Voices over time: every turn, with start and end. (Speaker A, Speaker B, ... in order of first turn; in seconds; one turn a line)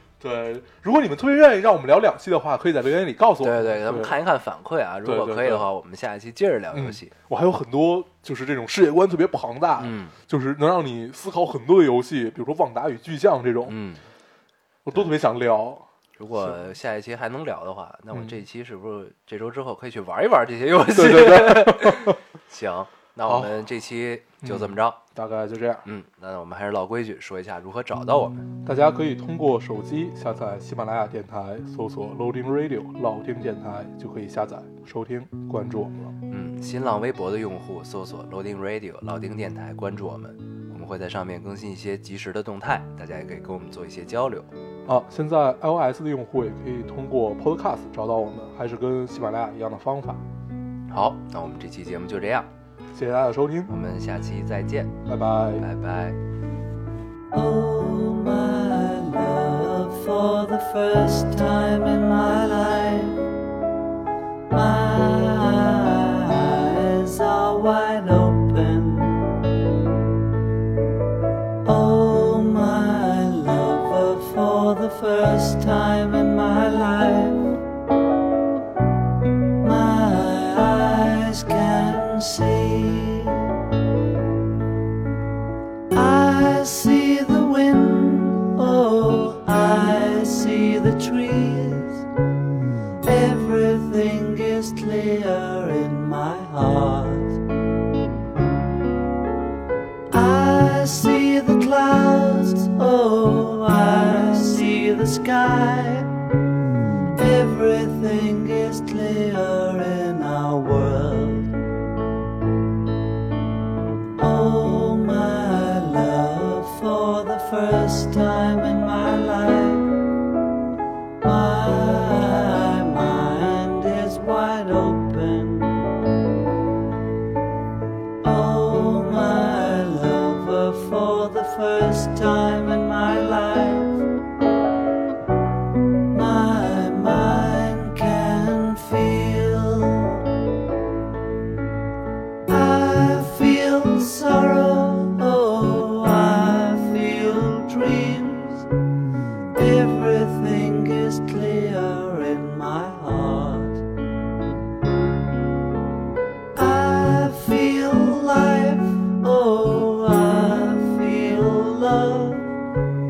Speaker A: 0.2-4.2
Speaker B: 3.4-7.1
Speaker A: 5.0-5.7
Speaker A: 6.7-13.7
Speaker B: 9.8-10.2
Speaker B: 13.7-14.0
Speaker A: 14.8-16.6
Speaker B: 16.2-25.0
Speaker A: 18.1-18.4
Speaker A: 20.9-22.2
Speaker A: 23.3-23.6
Speaker A: 24.4-25.9
Speaker B: 25.8-28.4
Speaker A: 28.6-36.1
Speaker B: 36.3-44.5
Speaker A: 44.9-50.2
Speaker B: 50.9-52.5
Speaker A: 52.9-53.7
Speaker B: 53.7-55.0
Speaker A: 55.0-55.6
Speaker B: 55.6-56.2
Speaker C: 57.3-63.2
Speaker C: 64.5-69.4
Speaker C: 71.6-77.6
Speaker C: 79.6-83.5
Speaker C: 85.9-92.0
Speaker C: 93.0-97.4
Speaker C: 100.1-106.1
Speaker C: 107.2-111.5
Speaker C: 114.2-119.9
Speaker C: 121.2-125.9
Speaker C: 128.2-134.0
Speaker C: 136.1-140.2
Speaker C: 142.5-148.7
Speaker C: 149.5-153.8
Speaker C: 156.5-162.5